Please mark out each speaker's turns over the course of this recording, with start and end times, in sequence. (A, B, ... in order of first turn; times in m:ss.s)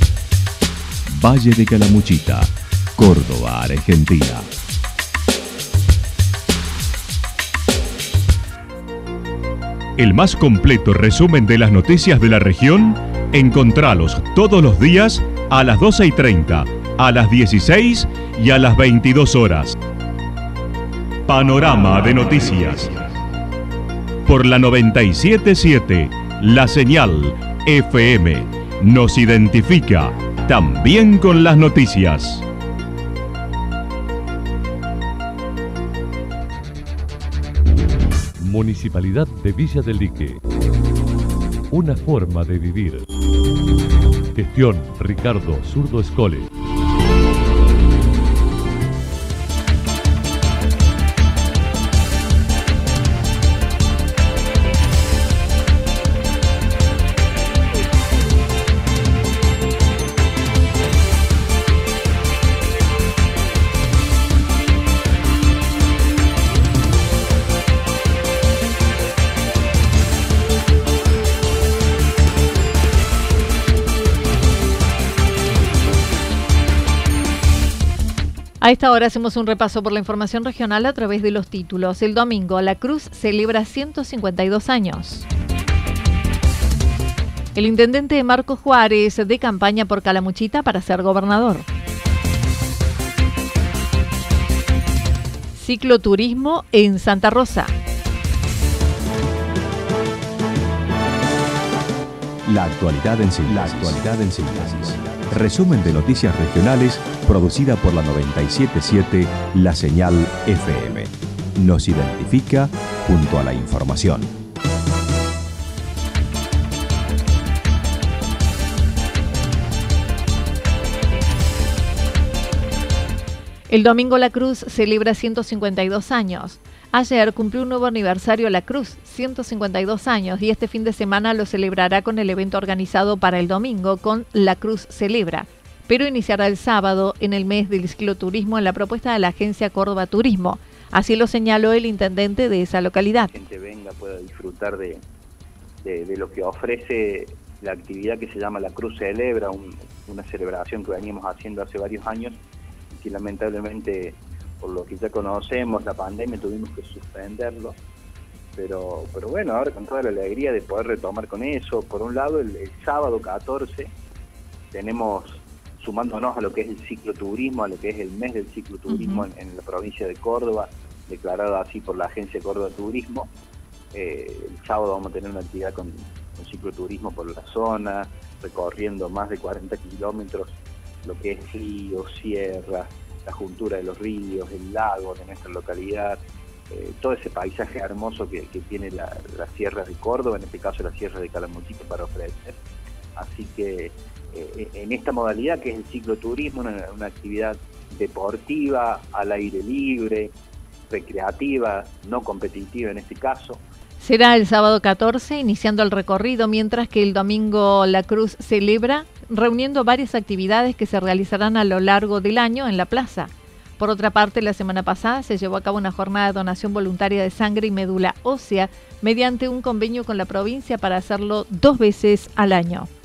0:01.1-0:04.5 A
0:10.0-0:19.8 A
0:21.3-0:23.0 A
0:24.3-0:32.5 A
0:38.4-0:40.4 B
0:41.7-0:43.1 B
0:44.3-0:46.5 B
1:18.6-1:25.3 C
1:27.6-1:31.7 C
1:35.5-1:37.7 C
1:42.4-1:54.3 A
2:03.7-2:23.3 C
2:23.3-2:25.0 D
2:25.8-2:32.4 D
2:32.9-2:37.8 D
2:38.6-2:43.9 D
2:44.7-2:53.3 D
2:48.9-2:49.3 C
2:53.9-3:12.6 D
3:13.2-3:20.3 D
3:20.9-3:23.6 D
3:24.0-3:42.9 C